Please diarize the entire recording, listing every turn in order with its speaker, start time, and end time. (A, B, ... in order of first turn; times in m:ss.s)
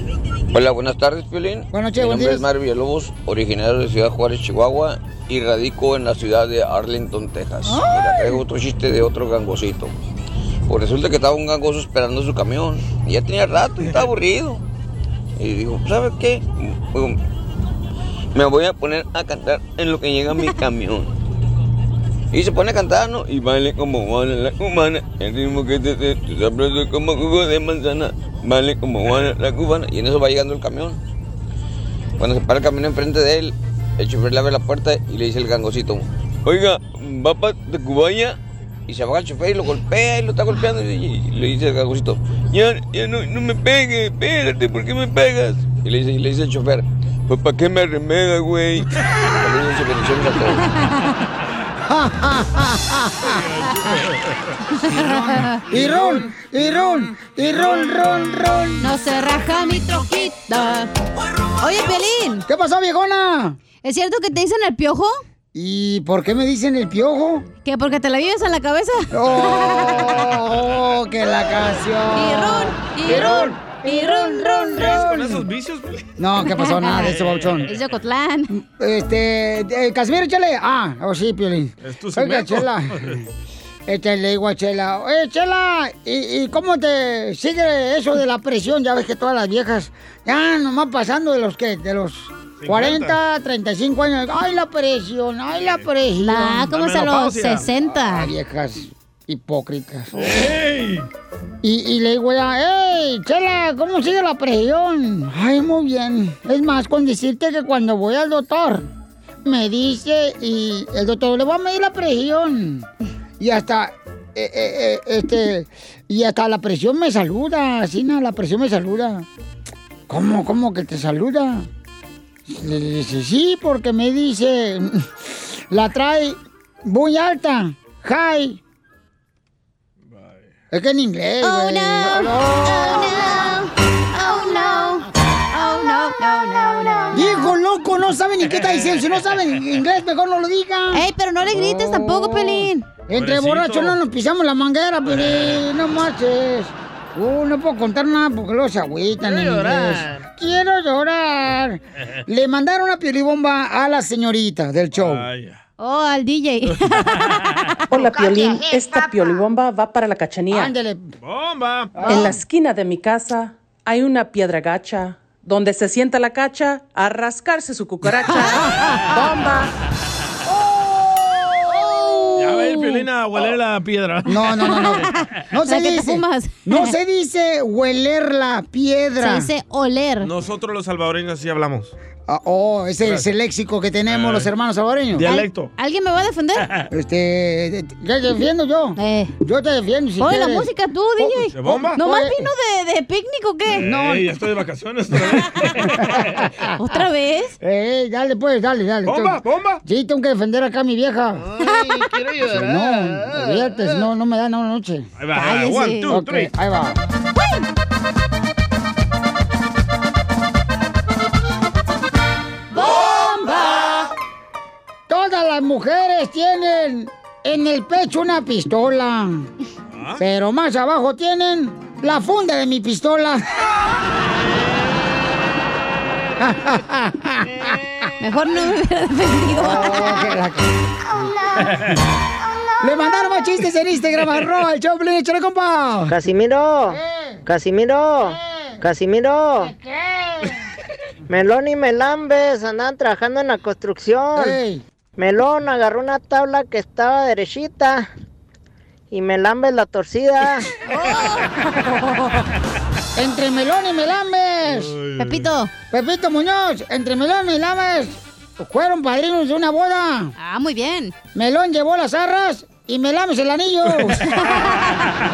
0:00.5-0:09.9 A
0:01.7-0:02.5 B
0:07.7-0:08.2 B
0:10.7-0:14.6 A
0:15.4-0:17.2 A
0:18.3-0:21.1 A
0:22.3-0:31.0 A
0:32.2-0:38.4 A
0:38.9-0:50.6 A
0:51.9-0:53.4 B
0:53.2-0:58.4 C
0:54.9-0:55.6 D
0:55.7-0:58.9 B
0:58.8-1:00.9 D
1:01.6-1:02.4 D
1:02.4-1:03.6 B
1:03.8-1:05.2 D
1:05.5-1:07.5 B
1:07.6-1:10.3 D
1:09.1-1:15.5 B
1:12.1-1:15.0 D
1:14.7-1:16.2 C
1:16.2-1:17.7 B
1:16.4-1:17.1 D
1:16.9-1:17.7 C
1:17.6-1:18.5 D
1:18.5-1:23.2 B
1:21.8-1:23.2 C
1:23.9-1:36.7 B
1:32.6-1:33.2 C
1:35.6-1:35.9 C
1:36.2-1:38.3 D
1:36.7-1:37.7 C
1:37.9-1:40.5 B
1:40.1-1:41.1 C
1:41.6-1:48.9 B
1:49.4-1:52.9 B
1:53.4-1:59.2 B
2:00.1-2:01.7 B
2:02.5-2:08.6 B
2:10.1-2:10.5 C
2:10.7-2:13.6 B
2:11.4-2:17.5 D
2:17.1-2:35.3 B
2:18.5-2:19.4 C
2:20.9-2:22.9 D
2:23.1-2:24.0 C
2:25.1-2:25.6 C
2:29.2-2:30.2 C
2:34.9-2:35.6 C
2:35.8-2:37.8 D
2:36.6-2:37.7 C
2:37.9-2:40.7 E
2:40.5-2:41.1 B
2:41.2-2:42.1 C
2:42.0-2:42.4 B
2:42.1-2:48.6 E
2:49.1-2:49.7 E
2:50.7-2:51.6 B
2:51.7-2:53.0 D
2:52.4-2:54.9 C
2:54.3-2:59.5 B
2:54.7-2:55.1 D
2:55.7-2:56.9 D
2:59.2-3:00.3 D
3:00.2-3:01.9 C
3:02.3-3:05.3 B
3:04.1-3:04.5 C
3:05.1-3:05.7 C
3:05.2-3:06.7 D
3:06.6-3:06.9 C
3:06.9-3:10.7 B
3:09.0-3:09.3 D
3:10.2-3:13.8 D
3:11.2-3:12.5 B
3:11.5-3:12.0 C
3:13.7-3:14.2 B
3:13.7-3:16.4 C
3:15.9-3:16.7 B
3:16.8-3:17.5 D
3:17.6-3:21.4 B
3:19.0-3:19.8 C
3:21.6-3:23.6 C
3:21.6-3:22.0 D
3:22.5-3:25.1 B
3:25.2-3:26.5 C
3:25.3-3:26.1 D
3:26.1-3:27.0 B
3:27.4-3:27.6 D
3:35.1-3:39.5 B
3:39.9-3:40.2 C
3:40.2-3:43.4 B
3:46.4-3:47.8 B
3:48.2-3:50.2 D
3:49.6-3:51.8 B
3:52.8-3:56.1 B
3:56.1-3:59.7 F
3:56.9-3:57.4 B
3:58.2-3:58.8 B
3:59.6-4:00.6 B
4:01.3-4:04.6 F
4:04.4-4:04.8 B
4:05.2-4:08.1 F
4:09.1-4:10.7 F
4:10.9-4:12.4 D
4:13.1-4:14.9 B
4:14.6-4:15.5 C
4:15.2-4:15.7 D
4:15.9-4:20.3 B
4:20.4-4:21.1 D
4:21.3-4:24.2 B
4:23.9-4:24.7 C
4:24.3-4:25.1 D